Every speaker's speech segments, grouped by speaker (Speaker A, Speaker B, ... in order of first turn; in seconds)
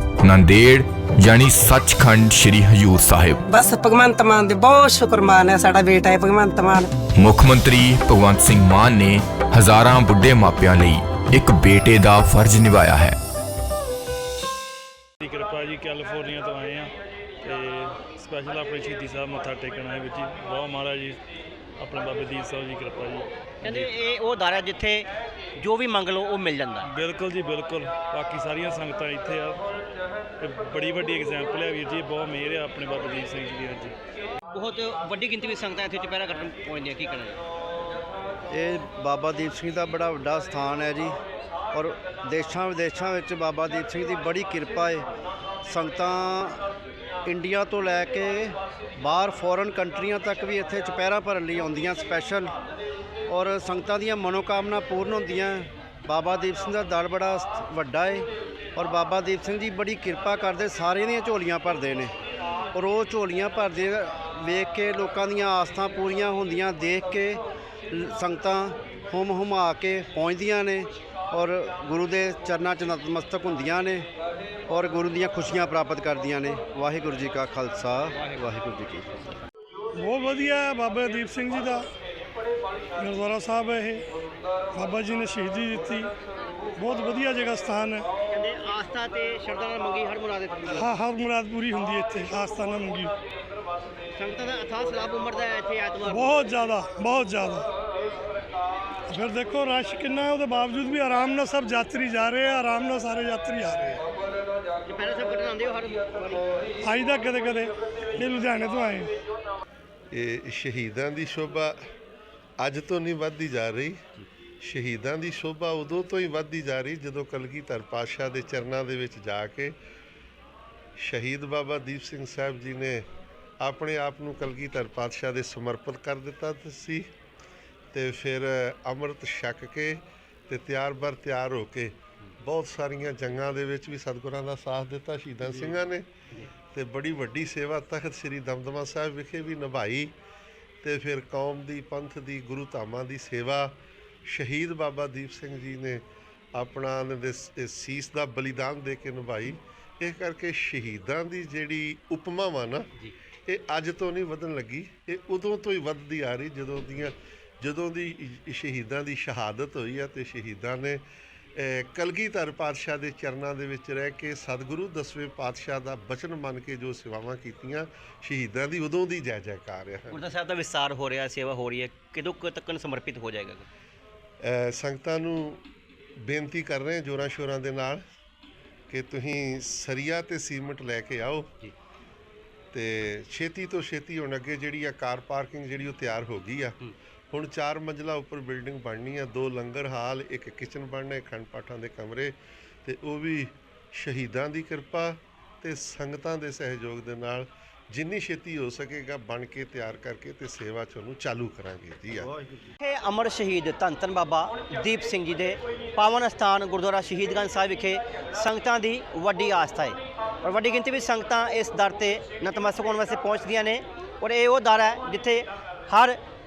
Speaker A: 0.2-3.4, 7.2-13.2
Speaker B: 3.5-6.9
Speaker C: 15.2-21.2, 21.8-23.9, 26.9-29.6, 30.4-33.9
Speaker D: 23.6-26.9, 34.5-37.4, 88.3-90.9, 94.1-96.5, 104.8-106.4, 170.1-173.7, 202.8-216.2
Speaker E: 38.5-41.1, 41.7-45.0, 45.6-46.6, 47.2-52.5, 53.3-62.1, 62.7-67.4, 67.9-74.0, 74.7-79.4
Speaker F: 80.0-81.9, 83.0-84.1, 84.7-86.1, 86.8-88.1, 90.7-93.1, 96.0-97.7, 99.1-104.0, 106.8-109.1
Speaker G: 110.1-111.8, 112.6-114.0, 114.6-119.7, 121.0-123.0, 123.6-127.1, 127.9-136.1, 136.7-140.1, 140.8-146.0, 146.5-152.9, 153.5-161.0, 161.6-170.2, 174.4-175.6, 176.2-178.0, 178.9-181.6, 182.7-186.8, 187.3-202.3